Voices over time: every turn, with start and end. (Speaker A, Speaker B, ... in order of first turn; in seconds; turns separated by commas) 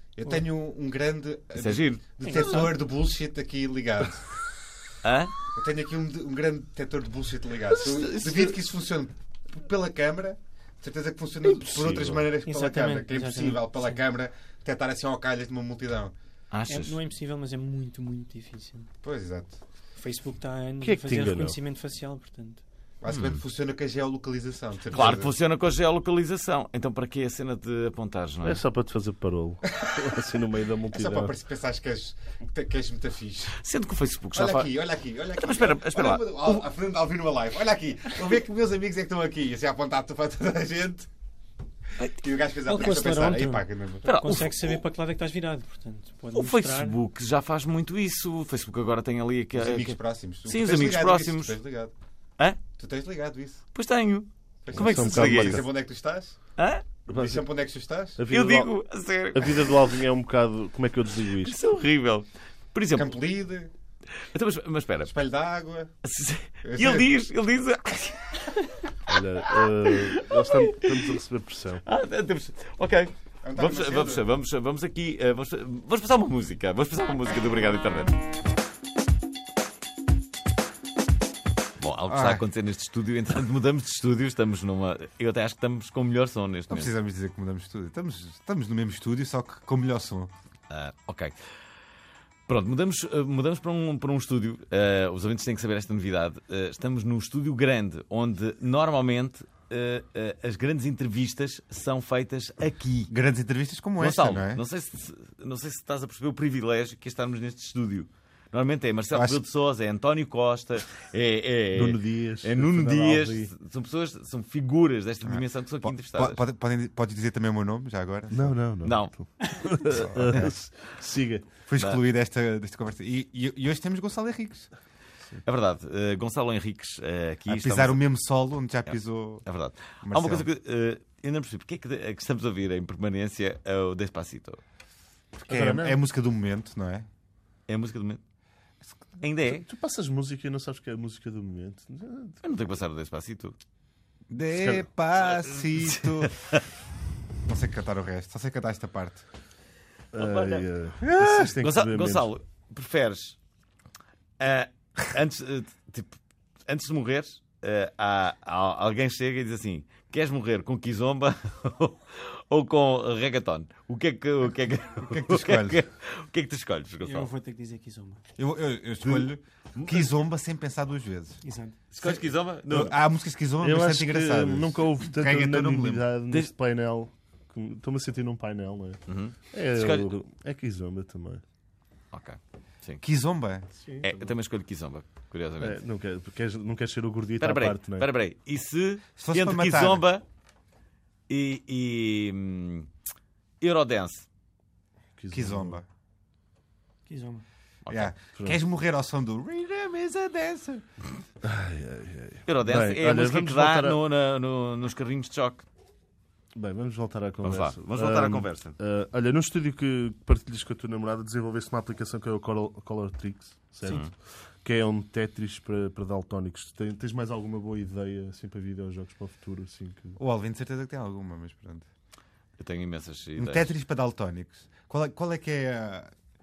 Speaker A: 0.2-4.5, Speaker B: 1.6-2.5, Speaker C: 2.2-2.7, Speaker B: 5.0-5.3, Speaker A: 5.5-16.1, Speaker D: 7.7-8.6, Speaker D: 11.4-12.3, Speaker C: 12.5-14.0, Speaker B: 16.5-17.0, Speaker C: 16.7-18.9, Speaker A: 19.0-19.6, Speaker C: 20.0-22.6, Speaker D: 20.8-21.6, Speaker A: 23.0-25.3, Speaker B: 23.1-23.4, Speaker B: 24.9-28.6, Speaker D: 28.4-31.3, Speaker A: 30.9-33.6, Speaker B: 33.6-34.8, Speaker A: 34.3-41.1, Speaker B: 35.4-36.7, Speaker A: 42.2-44.1, Speaker C: 42.7-47.0, Speaker B: 44.0-44.8, Speaker B: 46.4-51.6, Speaker A: 49.5-51.9, Speaker A: 52.8-53.6, Speaker B: 53.8-55.6, Speaker A: 54.6-56.4, Speaker D: 54.7-55.6, Speaker B: 56.6-56.9, Speaker A: 57.1-58.2, Speaker D: 57.1-57.4, Speaker D: 58.2-58.7, Speaker B: 58.3-59.8, Speaker D: 59.3-61.6, Speaker B: 61.4-63.1, Speaker A: 62.9-63.7, Speaker B: 64.3-65.1, Speaker A: 65.0-65.9, Speaker B: 66.0-71.2, Speaker A: 66.6-67.1, Speaker D: 69.1-71.8, Speaker B: 71.8-78.2, Speaker A: 73.4-74.3, Speaker B: 81.8-86.9, Speaker A: 82.1-82.4, Speaker A: 86.7-90.3, Speaker B: 90.7-91.4, Speaker B: 92.5-103.1, Speaker A: 103.1-104.6, Speaker B: 104.0-116.4, Speaker A: 109.1-109.4, Speaker D: 111.7-113.5, Speaker A: 115.2-118.6, Speaker D: 118.3-121.5, Speaker B: 118.8-119.9, Speaker A: 119.9-120.5, Speaker A: 121.7-124.7, Speaker B: 125.5-128.0, Speaker A: 127.5-129.4, Speaker B: 129.5-134.6, Speaker A: 130.0-130.5, Speaker D: 135.4-136.0, Speaker A: 135.5-137.1, Speaker B: 137.7-138.2, Speaker B: 139.2-139.7, Speaker D: 139.5-142.4, Speaker B: 142.4-143.6, Speaker A: 144.3-146.3, Speaker D: 144.6-144.9, Speaker B: 145.3-146.6, Speaker A: 147.5-149.2, Speaker B: 150.1-150.7, Speaker D: 150.1-152.3, Speaker A: 151.1-151.5, Speaker B: 151.2-153.4, Speaker B: 154.4-167.3, Speaker A: 165.0-165.8, Speaker C: 167.0-168.2, Speaker A: 168.4-171.4, Speaker B: 169.0-170.1, Speaker C: 171.4-171.8, Speaker B: 171.9-173.0, Speaker A: 172.0-176.0, Speaker D: 173.6-181.4, Speaker B: 179.1-180.1, Speaker B: 182.1-183.0, Speaker A: 183.0-183.7, Speaker C: 183.8-184.3, Speaker B: 184.0-185.8, Speaker D: 185.6-188.1, Speaker B: 187.4-190.2, Speaker A: 189.2-190.0, Speaker B: 191.3-192.9, Speaker B: 193.6-194.3, Speaker D: 195.2-195.8, Speaker A: 195.3-195.9, Speaker C: 197.1-197.4, Speaker B: 197.9-198.1, Speaker A: 197.9-200.8, Speaker D: 201.4-204.0, Speaker B: 202.5-205.7, Speaker D: 206.6-220.2, Speaker B: 207.4-208.8, Speaker B: 213.9-214.1, Speaker A: 220.2-221.9, Speaker B: 222.6-223.7, Speaker A: 223.4-226.1